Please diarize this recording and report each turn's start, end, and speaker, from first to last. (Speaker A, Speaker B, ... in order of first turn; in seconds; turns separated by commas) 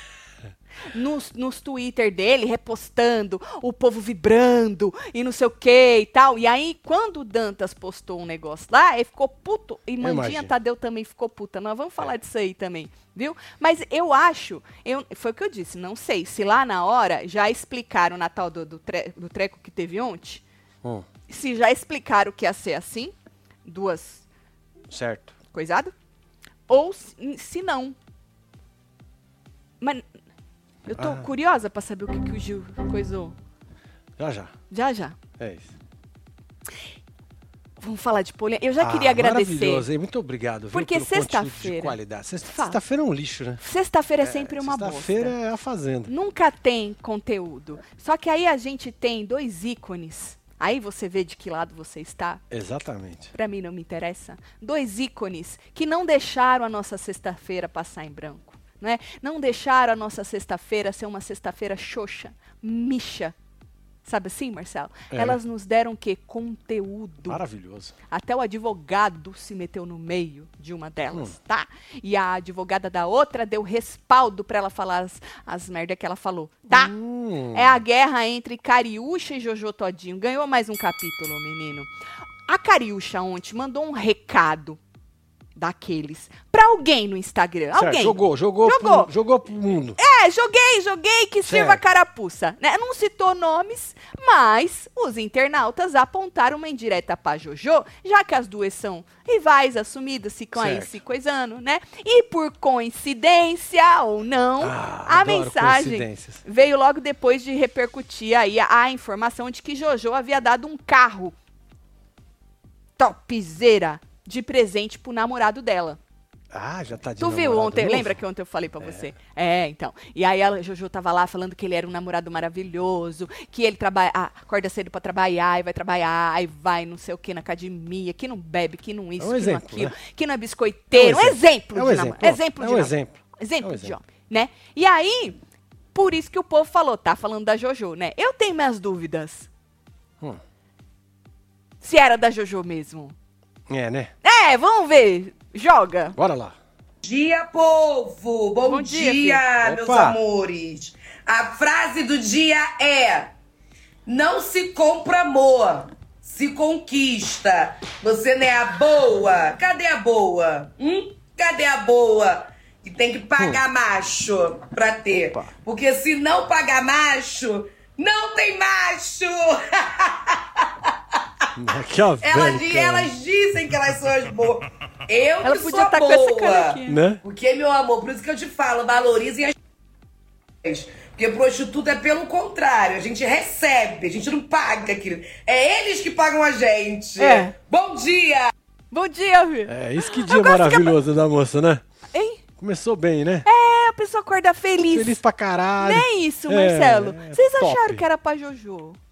Speaker A: 0.9-20.4, Speaker B: 10.0-10.5, Speaker A: 21.3-23.1, Speaker A: 23.6-24.2, Speaker B: 24.9-25.4, Speaker A: 25.5-25.9, Speaker A: 26.7-27.9, Speaker A: 30.9-33.4, Speaker B: 31.0-31.3, Speaker B: 34.2-34.5, Speaker A: 34.7-35.2, Speaker B: 35.4-35.7, Speaker A: 37.8-39.9, Speaker B: 38.8-43.6, Speaker A: 40.7-42.8, Speaker A: 43.6-45.3, Speaker B: 44.2-46.1, Speaker A: 46.1-52.4, Speaker B: 52.5-53.3, Speaker A: 53.3-63.3, Speaker A: 64.0-67.4, Speaker B: 65.1-65.4, Speaker B: 67.2-67.9, Speaker A: 68.1-76.9, Speaker B: 76.7-77.8, Speaker A: 77.5-81.9, Speaker A: 82.5-84.8, Speaker A: 85.5-89.1, Speaker B: 87.7-90.0, Speaker A: 90.0-111.3, Speaker B: 91.5-91.8, Speaker B: 100.5-101.0, Speaker B: 104.6-106.4, Speaker A: 113.0-116.0, Speaker B: 116.5-118.2, Speaker A: 117.2-135.4, Speaker B: 118.8-119.1, Speaker B: 129.2-130.0, Speaker B: 130.9-133.9, Speaker A: 135.9-139.5, Speaker A: 141.8-143.1, Speaker B: 143.7-144.1, Speaker A: 144.2-146.2, Speaker B: 146.2-146.6, Speaker C: 147.0-153.3, Speaker A: 148.7-149.4, Speaker B: 149.6-150.2, Speaker C: 154.1-170.9, Speaker B: 165.1-165.5, Speaker B: 171.5-173.1, Speaker C: 172.2-179.5, Speaker A: 175.4-177.0, Speaker B: 176.9-177.2, Speaker C: 180.6-188.5, Speaker A: 187.2-187.5, Speaker A: 188.9-190.9, Speaker B: 189.7-191.8, Speaker A: 192.1-192.4, Speaker B: 192.6-193.5, Speaker A: 193.4-195.2, Speaker B: 194.9-198.0, Speaker A: 195.8-199.0